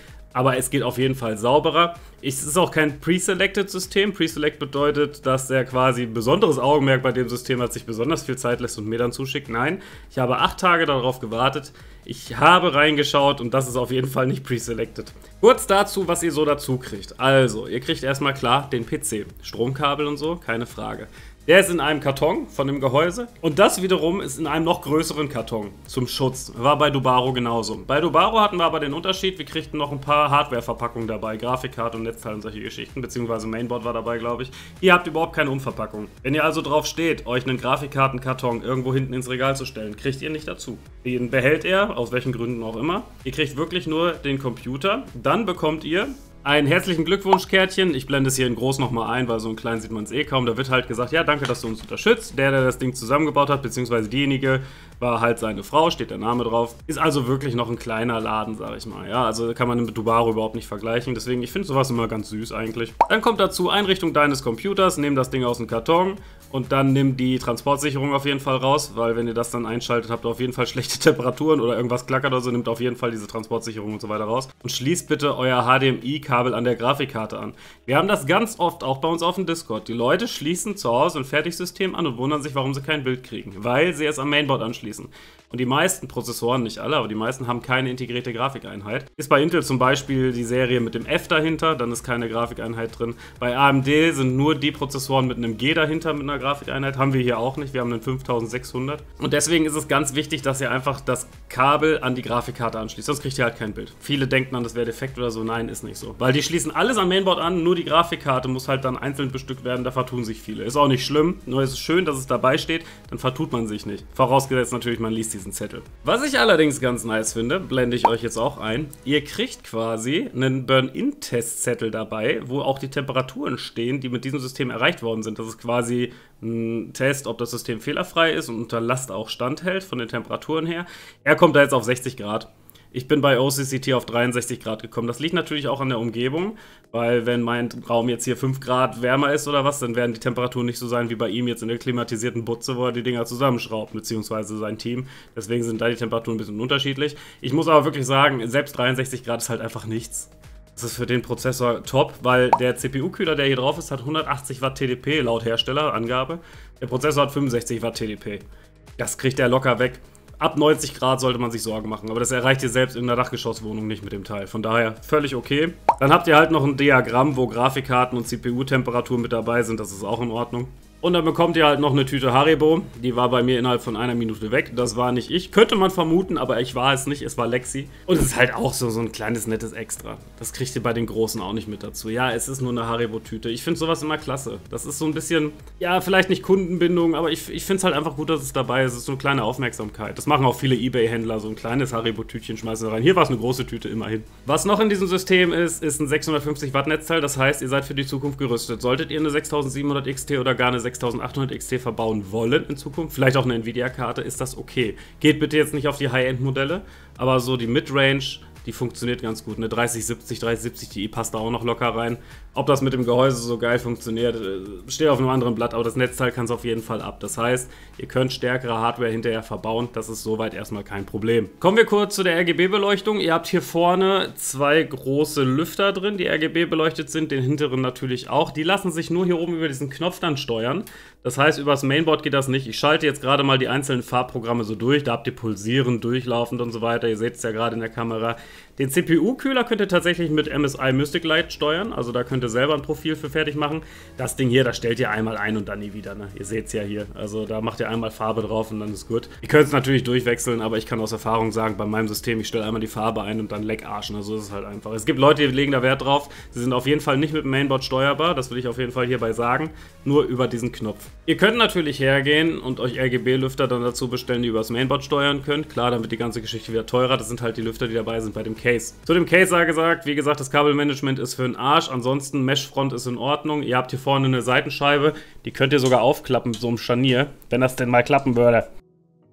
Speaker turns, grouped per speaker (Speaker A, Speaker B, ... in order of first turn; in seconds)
Speaker A: 0.3-158.4, 159.0-278.7